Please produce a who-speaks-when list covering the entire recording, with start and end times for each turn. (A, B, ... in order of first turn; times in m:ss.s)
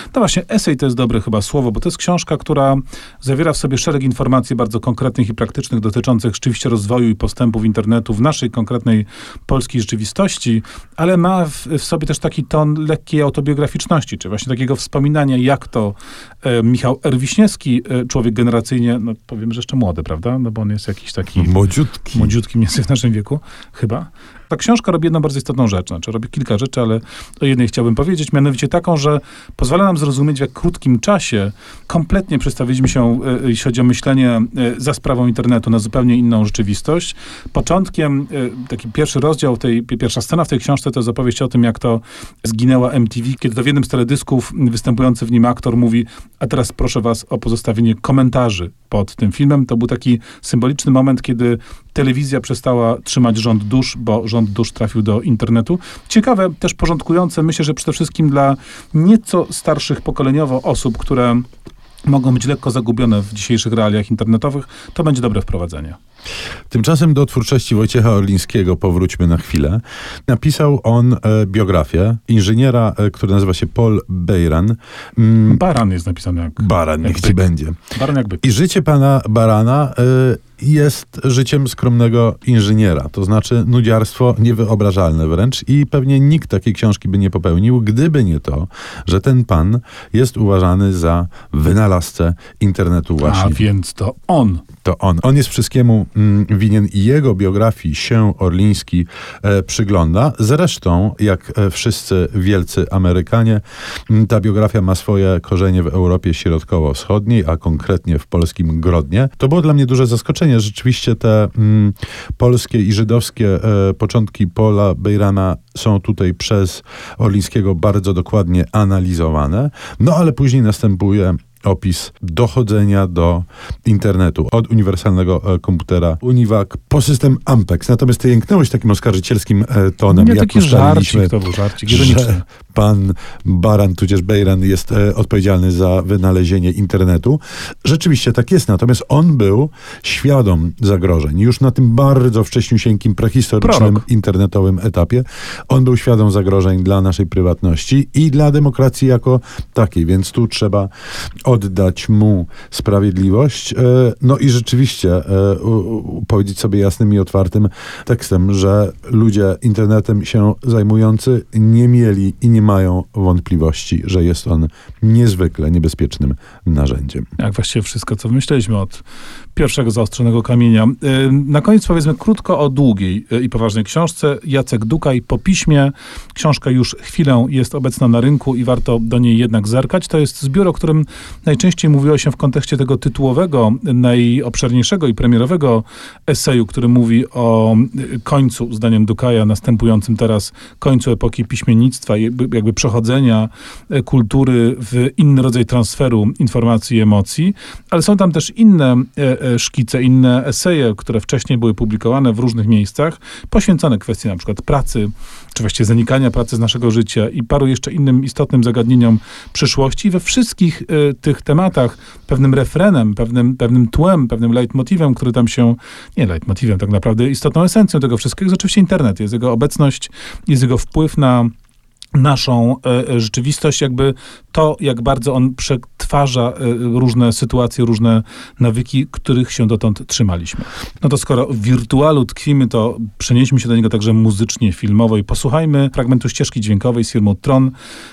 0:00.1-1:01.5 A
0:21.4-0:22.3 B
1:02.0-1:06.0 A
1:06.7-1:15.6 B
1:15.5-1:17.4 A
1:16.6-1:17.8 B
1:18.0-1:18.4 A
1:18.4-1:33.6 B
1:33.2-1:34.6 A
1:34.8-2:11.3 B
2:10.1-2:12.4 A
2:11.8-2:30.9 B
2:23.6-2:24.0 A
2:31.4-2:47.3 B
2:47.4-2:49.0 A
2:49.6-3:41.5 A
3:42.1-3:57.7 A